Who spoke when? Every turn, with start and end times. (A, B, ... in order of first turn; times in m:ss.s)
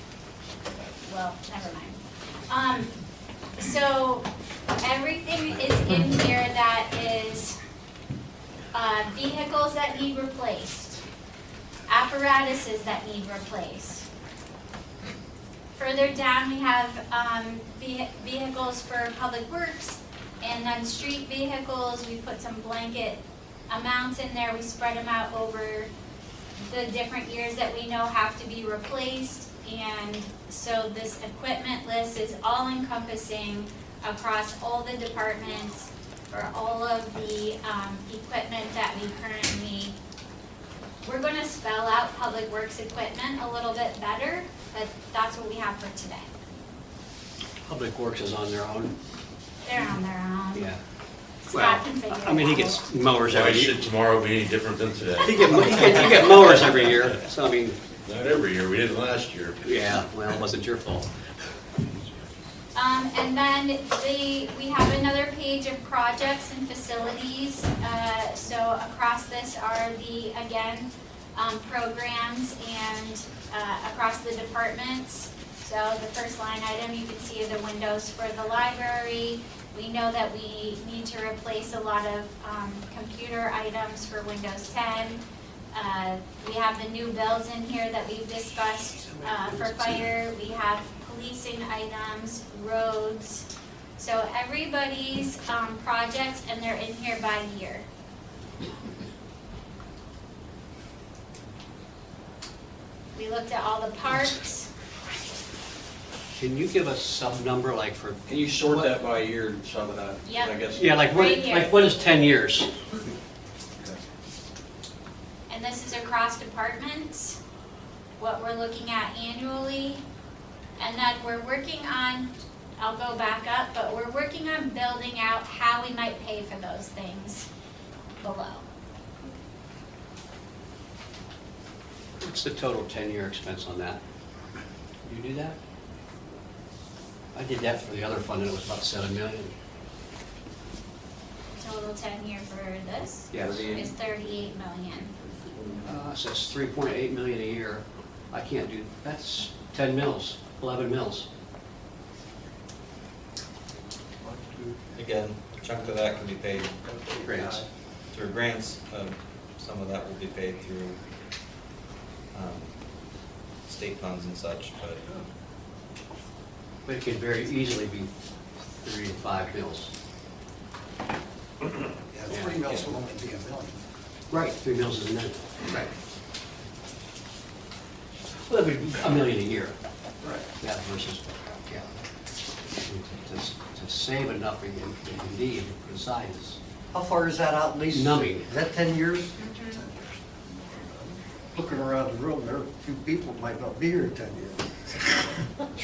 0:00.8-0:02.9 A
0:03.6-0:04.3 A
0:04.8-0:07.6 A
0:08.7-0:11.0 A
0:11.9-0:14.1 A
0:15.8-0:25.9 A
0:26.6-0:39.9 A
0:41.0-0:46.3 A
0:47.6-0:48.9 B
0:49.6-0:50.7 A
0:50.5-0:50.8 B
0:51.4-0:52.8 A
0:51.5-0:53.8 B
0:53.4-0:55.3 C
0:55.2-0:57.8 B
0:55.3-0:56.4 D
0:58.0-0:59.6 C
0:59.6-1:01.1 B
1:02.7-1:25.2 A
1:25.7-1:33.4 A
1:29.2-1:30.1 B
1:34.0-1:37.8 A
1:43.1-1:44.7 A
1:46.4-1:48.9 B
1:48.3-1:50.9 E
1:50.2-1:51.8 A
1:50.8-1:52.7 B
1:55.5-1:57.4 A
1:58.2-2:00.0 A
2:00.8-2:07.5 A
2:08.2-2:08.6 A
2:12.2-2:14.0 B
2:15.0-2:15.6 B
2:17.3-2:19.5 B
2:21.5-2:25.1 A
2:23.3-2:23.7 B
2:23.4-2:23.9 E
2:25.8-2:31.3 B
2:34.2-2:34.8 F
2:35.0-2:36.7 D
2:35.7-2:37.6 F
2:37.2-2:37.6 B
2:38.1-2:41.0 D
2:42.3-2:42.8 D
2:43.6-2:45.0 D
2:46.8-2:48.1 B
2:48.8-2:49.9 B
2:52.1-2:53.8 F
2:52.3-2:52.8 B
2:54.3-2:55.5 B
2:58.5-2:59.8 B
3:00.6-3:01.9 B
3:02.8-3:06.6 B
3:06.9-3:09.4 G
3:07.9-3:08.5 B
3:09.7-3:10.1 F
3:10.7-3:11.1 F
3:11.5-3:15.2 G